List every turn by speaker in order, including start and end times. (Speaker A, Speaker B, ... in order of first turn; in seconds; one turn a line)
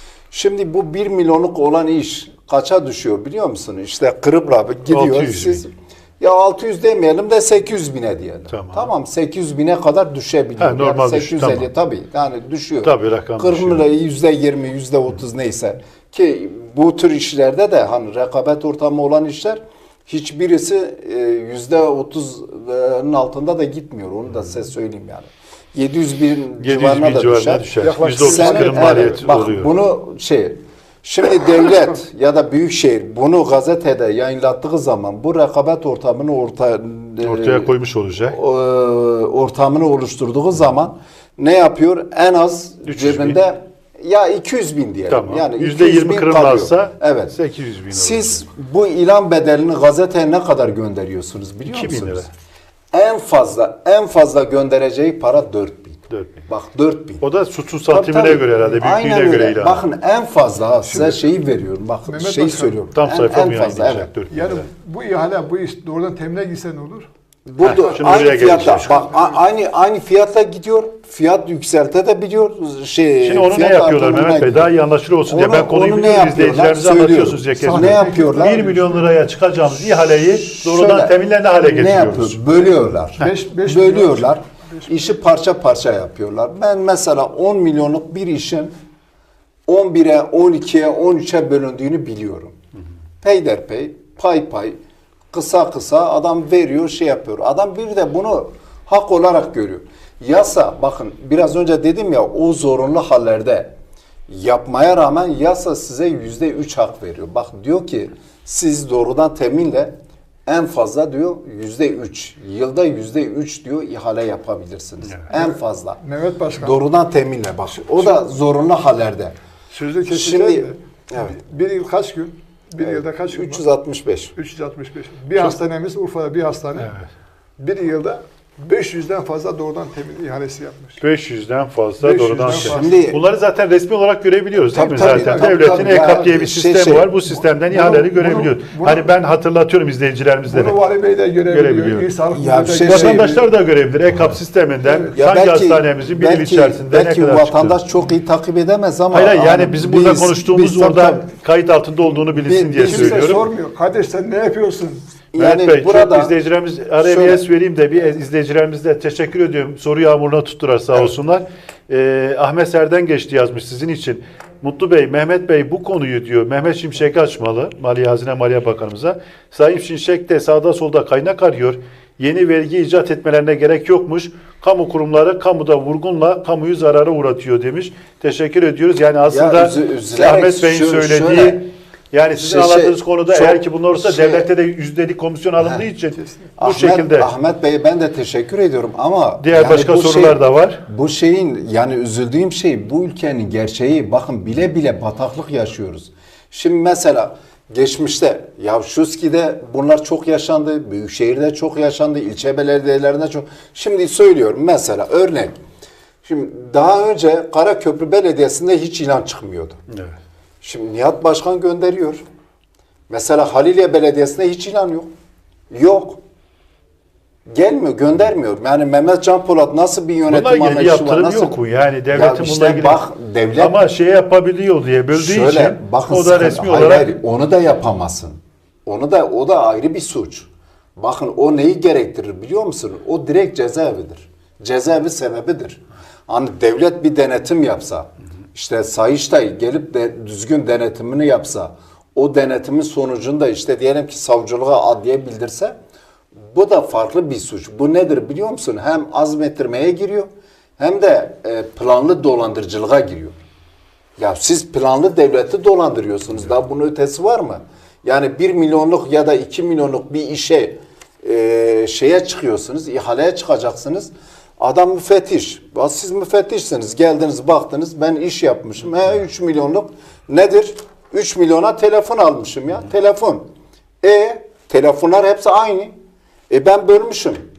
Speaker A: 0.3-37.7
Speaker B: 4.9-5.6
Speaker B: 8.5-8.9
Speaker B: 10.6-11.7
Speaker B: 12.8-13.8
Speaker B: 26.6-29.7
Speaker C: 27.8-29.2
Speaker B: 37.2-38.4
Speaker A: 38.3-47.4
Speaker B: 42.9-43.4
Speaker B: 45.1-48.4
Speaker A: 47.9-52.3
Speaker B: 51.6-52.2
Speaker A: 52.9-57.2
Speaker B: 56.1-56.4
Speaker B: 57.2-59.8
Speaker A: 57.9-64.1
Speaker C: 60.8-61.2
Speaker C: 62.0-62.8
Speaker B: 62.9-64.7
Speaker C: 64.3-67.1
Speaker A: 67.5-74.7
Speaker B: 67.6-68.9
Speaker C: 67.6-69.4
Speaker B: 73.2-82.4
Speaker A: 75.2-78.7
Speaker C: 77.6-79.1
Speaker A: 79.8-88.7
Speaker C: 83.2-84.9
Speaker A: 89.7-92.5
Speaker A: 93.2-94.8
Speaker A: 95.3-103.7
Speaker A: 104.3-116.0
Speaker C: 115.3-116.8
Speaker A: 116.5-119.3
Speaker C: 117.7-118.2
Speaker C: 119.7-123.6
Speaker A: 120.1-121.3
Speaker A: 122.8-124.3
Speaker C: 124.3-126.9
Speaker B: 126.8-127.1
Speaker C: 127.6-131.0
Speaker B: 131.0-140.8
Speaker C: 132.0-133.0
Speaker A: 132.5-133.2
Speaker A: 134.7-137.1
Speaker C: 134.9-136.3
Speaker C: 137.6-139.1
Speaker C: 140.5-143.5
Speaker B: 141.5-142.1
Speaker A: 142.3-143.4
Speaker B: 142.8-147.8
Speaker A: 145.1-151.3
Speaker B: 149.1-153.4
Speaker A: 152.2-153.4
Speaker C: 152.8-155.0
Speaker A: 155.3-156.3
Speaker B: 155.4-187.3
Speaker A: 157.0-157.4
Speaker A: 179.3-181.6
Speaker A: 182.3-184.5
Speaker A: 185.6-185.8
Speaker A: 186.6-205.5
Speaker B: 189.4-190.8
Speaker A: 206.2-209.8
Speaker A: 210.6-212.2
Speaker A: 213.1-215.1
Speaker A: 215.7-216.2
Speaker A: 217.5-223.8
Speaker B: 220.3-223.0
Speaker B: 223.6-227.1
Speaker A: 225.1-245.8
Speaker A: 246.5-253.3
Speaker A: 254.2-273.4
Speaker A: 274.0-275.9
Speaker A: 276.5-277.4